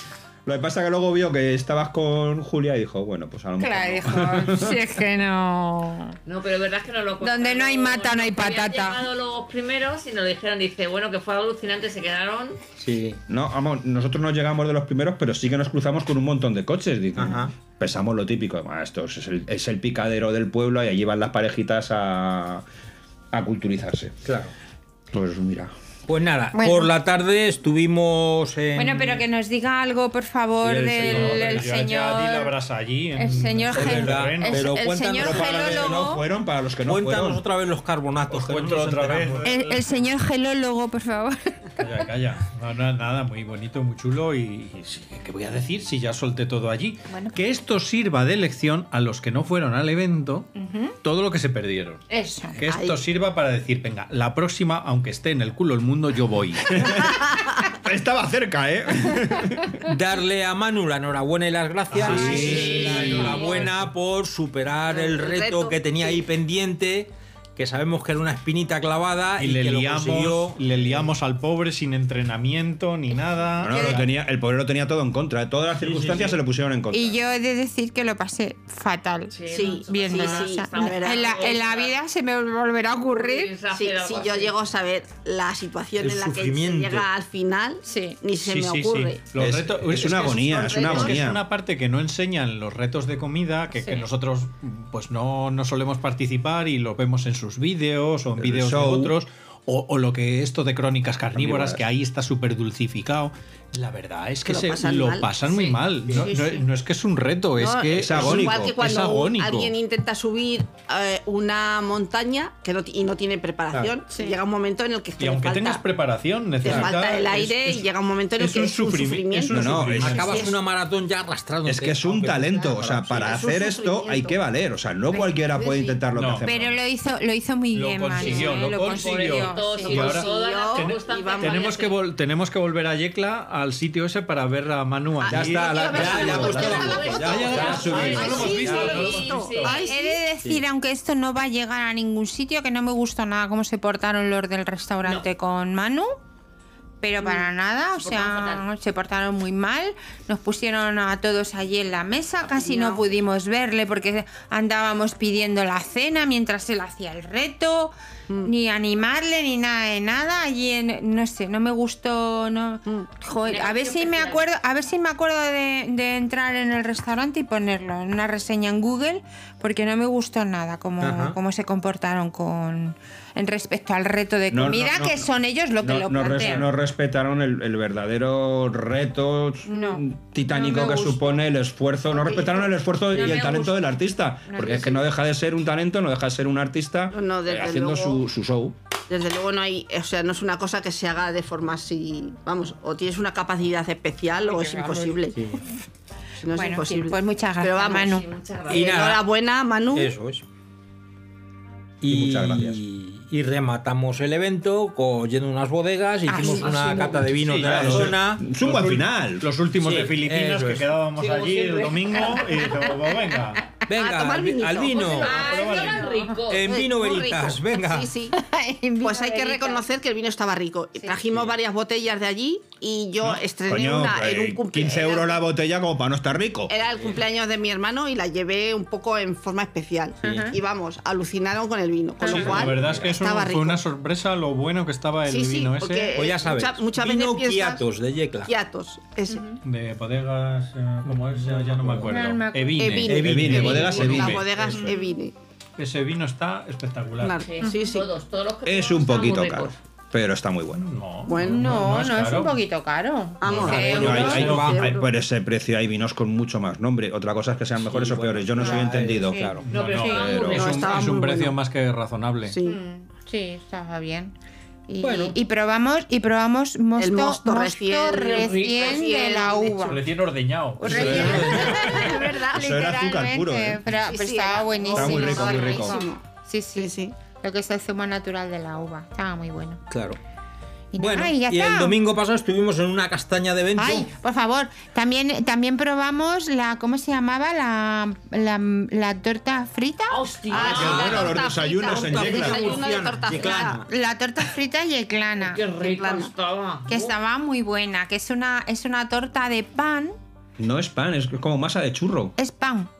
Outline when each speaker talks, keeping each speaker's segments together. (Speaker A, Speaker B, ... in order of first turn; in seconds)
Speaker A: 0.4-4.8, 13.3-22.6, 23.3-24.2, 25.1-25.7, 35.0-37.4, 56.8-57.1, 57.7-59.8, 62.0-63.3, 73.6-77.2, 89.3-91.4, 98.4-99.1, 101.3-101.8, 108.0-108.7, 119.5-120.2, 121.6-126.8, 135.3-138.6, 174.5-188.7, 202.1-202.8, 207.6-209.5, 223.7-226.7, 243.2-244.4, 248.6-250.8, 253.9-260.8, 270.9-274.1, 274.9-276.0, 290.5-292.8, 300.6-302.3
Speaker B: 3.6-6.2, 7.2-9.0, 26.5-26.9, 28.8-32.5, 33.1-36.2, 39.4-41.6, 47.1-47.4, 50.5-51.0, 52.1-52.6, 76.9-83.5, 87.8-88.2, 106.2-106.6, 125.1-129.9, 139.9-146.1, 147.0-176.7, 179.7-181.2, 183.1-183.9, 184.5-185.1, 194.4-195.2, 196.5-198.2, 206.3-207.2, 212.2-212.7, 215.2-216.4, 218.3-219.8, 230.2-230.5, 232.2-232.5, 239.3-239.6, 242.1-242.9, 244.8-245.1, 247.6-247.9, 251.4-254.3, 259.2-259.5, 262.6-264.3, 264.9-270.0, 271.0-279.8, 280.9-282.0, 283.8-290.2, 293.4-295.6, 296.9-300.2, 302.4-302.9
Speaker C: 6.2-12.6, 79.3-81.9, 83.1-84.5, 105.5-105.8, 128.2-131.9, 136.8-140.0, 148.0-148.6, 163.3-164.5, 197.8-199.0, 211.2-212.6, 215.0-216.7, 247.4-249.7, 259.7-260.9, 268.1-269.4, 274.8-275.9, 290.1-291.3, 292.5-293.0, 295.4-297.1
Speaker D: 12.8-13.2, 17.1-17.5, 24.2-24.5, 26.1-29.2, 30.7-31.6, 33.7-36.0, 36.9-39.5, 59.8-71.0, 75.8-76.4, 86.0-87.1, 106.1-106.3, 120.0-123.3, 135.4-139.0, 171.0-171.4, 198.7-199.2, 199.9-200.4, 202.0-209.0, 209.8-210.9, 213.9-215.4, 216.5-218.1, 221.2-221.6, 226.9-227.2, 232.3-233.1, 236.2-238.5, 241.0-242.1, 243.0-244.9, 253.5-254.9, 257.8-259.6, 265.0-265.4, 270.8-271.7, 279.9-280.2, 281.0-284.1, 290.5-293.8
Speaker E: 30.7-34.7, 38.3-39.9, 41.8-50.5, 51.0-57.1, 61.9-63.9, 69.4-74.1, 88.4-109.7, 115.2-120.5, 126.1-126.5, 127.7-139.7, 207.0-213.7, 215.3-216.0, 232.2-236.1, 239.6-244.5, 245.8-247.4, 250.7-252.6, 253.4-254.9, 259.7-262.6, 269.9-271.8
Speaker F: 52.6-53.0, 64.9-66.2, 79.5-81.3, 83.7-89.2, 90.0-91.2, 104.4-105.3, 107.6-115.8, 116.6-120.6, 123.1-124.4, 129.9-131.8, 135.2-140.2, 152.5-153.0, 182.1-182.7, 187.1-188.3, 189.1-195.4, 196.4-198.2, 198.7-200.1, 213.9-215.5, 216.6-218.3, 219.0-225.4, 226.7-233.8, 235.2-237.8, 238.4-239.5, 242.8-245.3, 247.2-248.1, 251.2-251.7, 253.4-255.1, 260.5-261.5, 262.5-262.8, 267.0-270.0, 270.9-272.8, 274.0-276.2, 276.7-277.1, 290.5-293.8, 295.6-296.3